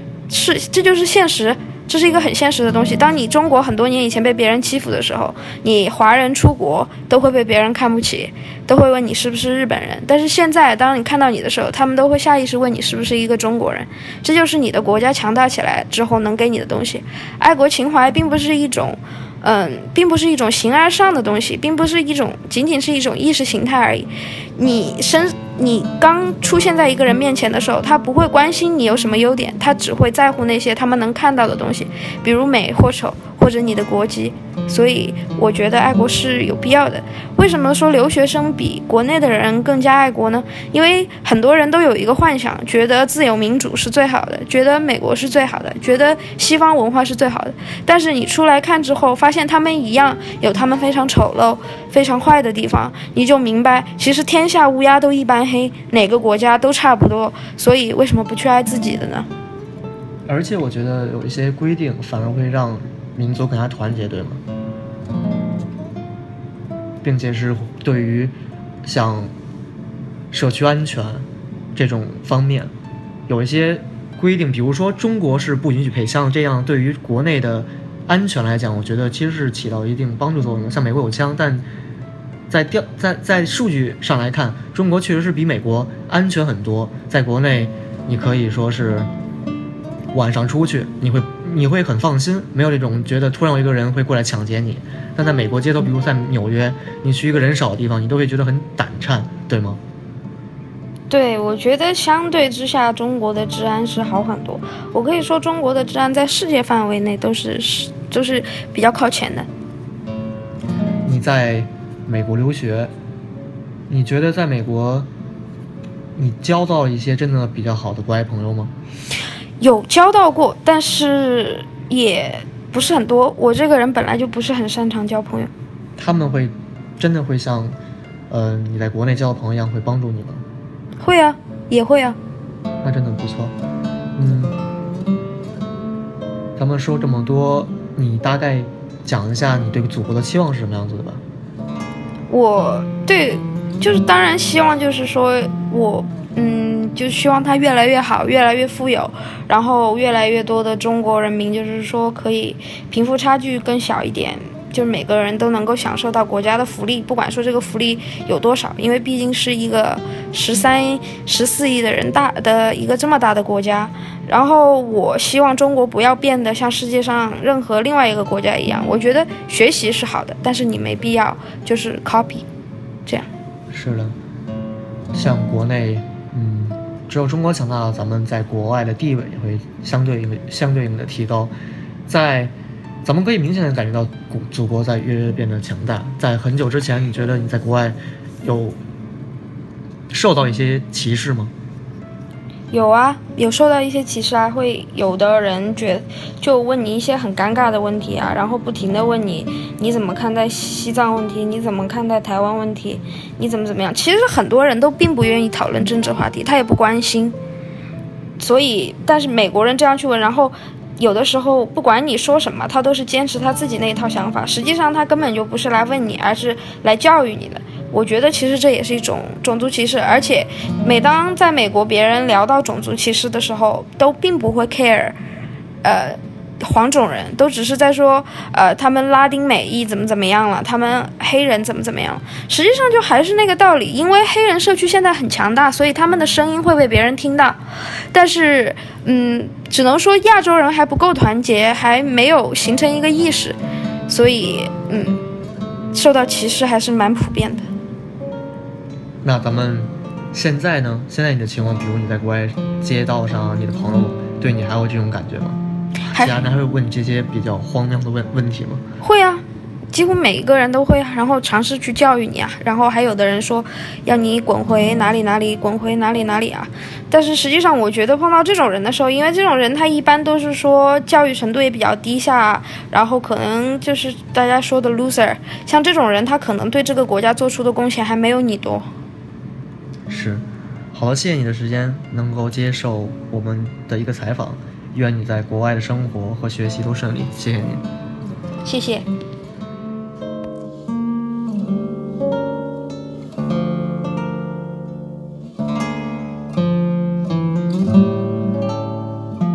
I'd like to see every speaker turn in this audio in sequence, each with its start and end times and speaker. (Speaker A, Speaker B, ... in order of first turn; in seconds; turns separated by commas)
Speaker A: 0.3-59.3, Speaker B: 60.3-64.4, Speaker B: 67.0-69.3, Speaker B: 70.3-72.7, Speaker B: 73.3-81.7, Speaker B: 82.5-89.1, Speaker B: 90.1-99.8, Speaker A: 101.1-109.5, Speaker B: 111.0-112.9, Speaker B: 113.9-115.1, Speaker B: 116.2-118.7, Speaker A: 119.6-125.5, Speaker B: 126.0-127.8, Speaker B: 128.3-130.4, Speaker A: 131.0-132.2, Speaker B: 132.8-133.6, Speaker B: 134.2-134.6, Speaker B: 136.6-141.2, Speaker A: 142.3-172.4, Speaker B: 173.7-174.2, Speaker B: 175.1-181.5, Speaker B: 182.1-188.8, Speaker B: 190.1-191.5, Speaker A: 192.7-207.4, Speaker A: 208.4-225.2, Speaker A: 225.8-237.6, Speaker A: 238.1-243.6, Speaker A: 244.1-245.2, Speaker A: 245.9-247.7, Speaker B: 249.2-258.8, Speaker A: 256.1-256.4, Speaker A: 259.0-278.9, Speaker B: 280.1-287.8, Speaker A: 288.6-289.1